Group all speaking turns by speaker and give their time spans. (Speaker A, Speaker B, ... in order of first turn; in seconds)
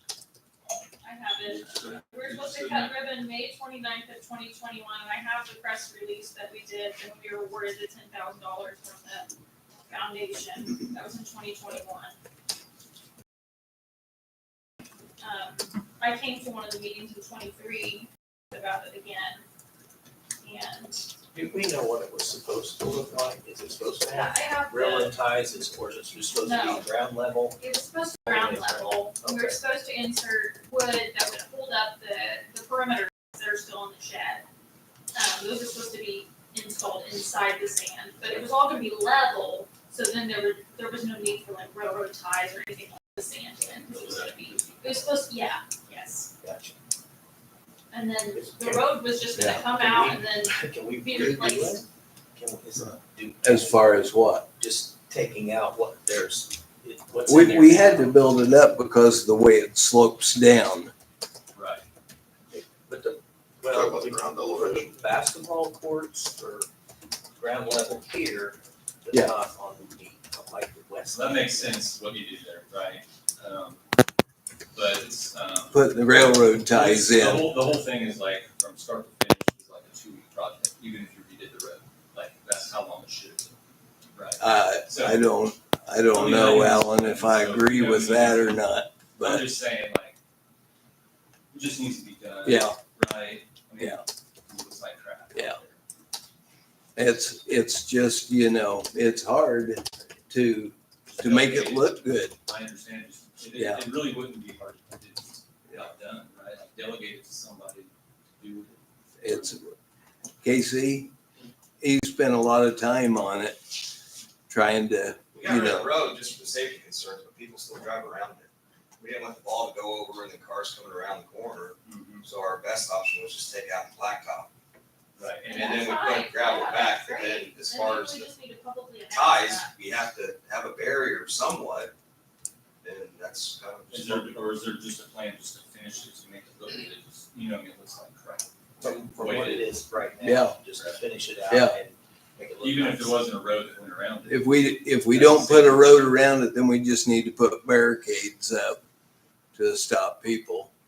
Speaker A: 1.0-9.3, 9.9-12.2, 15.2-19.4, 20.4-21.1, 24.1-25.1, 26.4-26.9, 27.6-34.5, 35.1-46.3, 47.9-51.8, 125.5-129.7
Speaker B: 1.5-3.0, 61.5-61.8, 71.1-73.8, 74.7-83.6, 84.2-85.3, 86.1-88.7, 89.2-90.2, 91.5-95.8, 101.1-109.6, 121.8-122.2, 125.2-125.7, 133.9-139.8, 142.6-144.5, 145.2-145.9
Speaker C: 21.3-27.6, 28.3-29.6, 43.9-44.7, 46.4-46.8, 48.3-54.0, 54.6-58.2, 62.5-66.7, 67.4-71.8, 138.8-143.2, 145.1-145.6
Speaker D: 53.4-54.5, 57.3-60.9, 75.7-77.5, 84.4-89.5, 92.5-92.8, 97.0-102.4, 103.5-103.8, 109.2-109.7, 110.4-111.1, 111.8-113.8, 114.5-115.9, 140.2-140.6, 141.5-141.8, 144.3-148.8, 149.6-150.7
Speaker E: 63.7-64.9, 115.4-124.5, 125.5-128.3, 129.1-131.9, 132.8-134.4